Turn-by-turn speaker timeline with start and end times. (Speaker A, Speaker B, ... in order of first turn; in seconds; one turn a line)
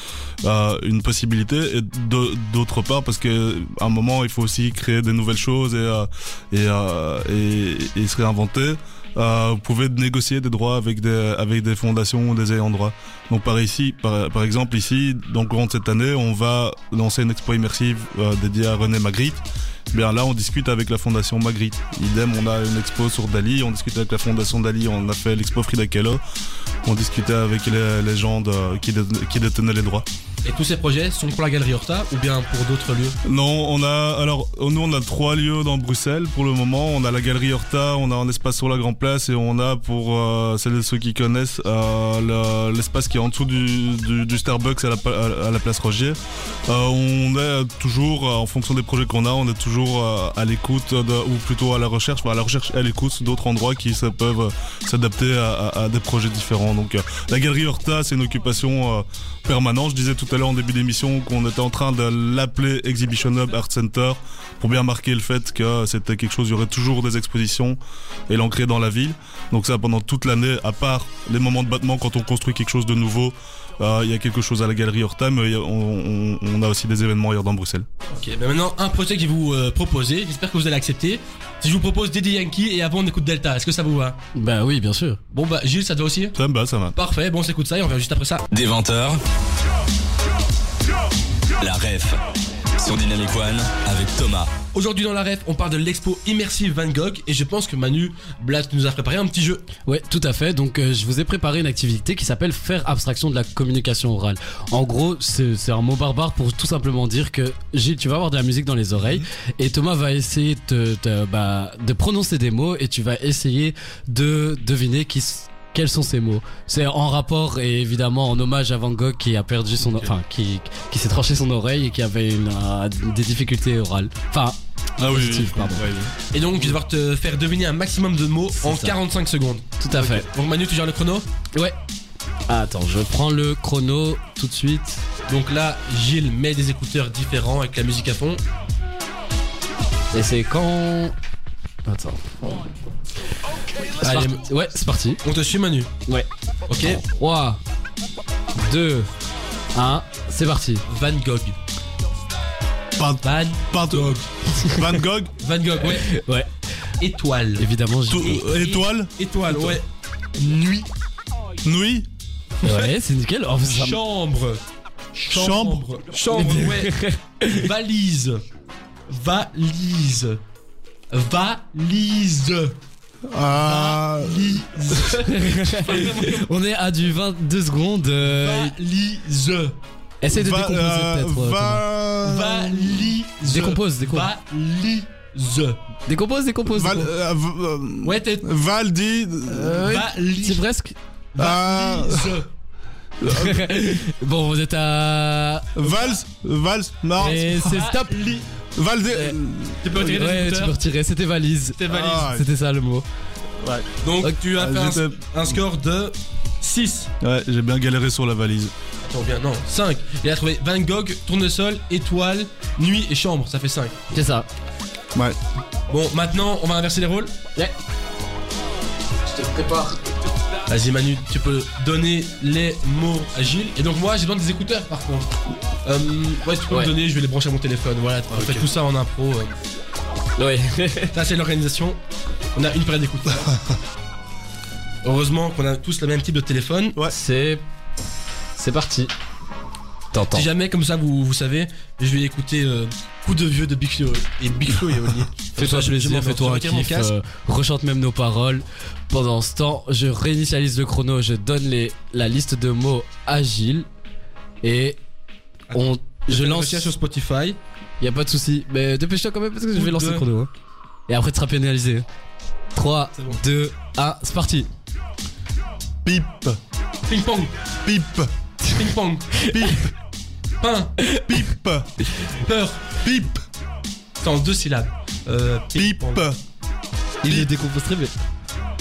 Speaker A: 0.4-26.2
Speaker A: 26.8-30.1
Speaker B: 30.4-33.2
Speaker A: 33.2-77.9
Speaker B: 78.1-84.2
Speaker C: 84.3-85.2
Speaker B: 85.3-86.3
Speaker A: 86.3-87.0
Speaker B: 86.9-88.4
Speaker D: 88.5-89.2
Speaker D: 91.6-92.2
Speaker D: 92.8-94.5
Speaker B: 94.7-99.7
Speaker C: 99.8-125.9
Speaker A: 125.0-126.1
Speaker B: 126.3-131.2
Speaker C: 128.6-128.9
Speaker C: 129.8-130.2
Speaker C: 132.5-135.0
Speaker B: 135.3-138.4
Speaker C: 140.1-141.1
Speaker C: 141.8-142.4
Speaker C: 143.9-145.2
Speaker B: 144.0-144.4
Speaker B: 145.2-145.9
Speaker B: 146.7-147.0
Speaker C: 147.0-147.6
Speaker C: 148.5-149.1
Speaker C: 149.7-150.8
Speaker B: 150.9-151.6
Speaker A: 153.0-155.3
Speaker B: 153.2-154.3
Speaker C: 154.5-154.9
Speaker B: 155.4-156.2
Speaker C: 155.9-156.5
Speaker B: 157.0-157.7
Speaker C: 157.6-158.4
Speaker A: 158.1-159.8
Speaker B: 158.3-159.8
Speaker B: 160.4-160.9
Speaker A: 161.6-162.1
Speaker B: 162.6-162.9
Speaker C: 162.6-164.0
Speaker B: 163.7-164.6
Speaker B: 165.1-168.4
Speaker A: 165.3-165.8
Speaker C: 166.3-167.6
Speaker B: 169.1-170.4
Speaker B: 171.1-172.8
Speaker A: 173.3-175.0
Speaker B: 173.5-176.5
Speaker C: 175.2-178.7
Speaker B: 178.3-179.8
Speaker C: 180.2-181.8
Speaker A: 180.3-183.7
Speaker B: 182.2-185.8
Speaker C: 183.4-184.3
Speaker C: 186.1-187.1
Speaker A: 186.7-189.9
Speaker B: 188.0-188.4
Speaker C: 189.5-190.9
Speaker B: 189.7-190.6
Speaker B: 191.3-192.5
Speaker A: 191.4-192.4
Speaker A: 193.2-193.6
Speaker C: 193.2-196.0
Speaker A: 195.7-197.9
Speaker C: 197.2-198.1
Speaker B: 197.2-198.5
Speaker A: 198.7-199.9
Speaker B: 199.2-200.7
Speaker C: 199.9-203.0
Speaker B: 201.8-202.3
Speaker A: 201.9-202.5
Speaker A: 203.6-203.9
Speaker B: 204.0-207.1
Speaker A: 204.5-205.2
Speaker A: 207.2-208.7
Speaker B: 209.0-213.9
Speaker C: 214.1-214.5
Speaker B: 215.9-217.3
Speaker C: 219.2-220.0
Speaker B: 220.7-225.3
Speaker B: 225.8-229.5
Speaker A: 228.3-228.7
Speaker C: 230.4-231.1
Speaker B: 231.1-232.0
Speaker B: 232.5-233.6
Speaker B: 235.0-237.0
Speaker C: 237.1-237.6
Speaker C: 238.6-239.1
Speaker C: 240.1-240.5
Speaker B: 240.3-247.1
Speaker C: 245.6-253.9
Speaker C: 254.6-255.0
Speaker B: 255.7-257.6
Speaker C: 255.7-256.9
Speaker C: 258.0-260.5
Speaker B: 259.7-260.2
Speaker C: 261.1-262.1
Speaker C: 262.7-264.7
Speaker A: 266.0-266.6
Speaker B: 267.1-267.5
Speaker A: 267.8-268.3
Speaker B: 268.7-269.5
Speaker C: 269.5-269.8
Speaker A: 269.5-269.9
Speaker B: 270.6-271.0
Speaker A: 271.2-272.0
Speaker B: 272.1-273.0
Speaker A: 273.0-273.4
Speaker B: 274.2-276.2
Speaker A: 275.8-276.4
Speaker C: 277.2-278.1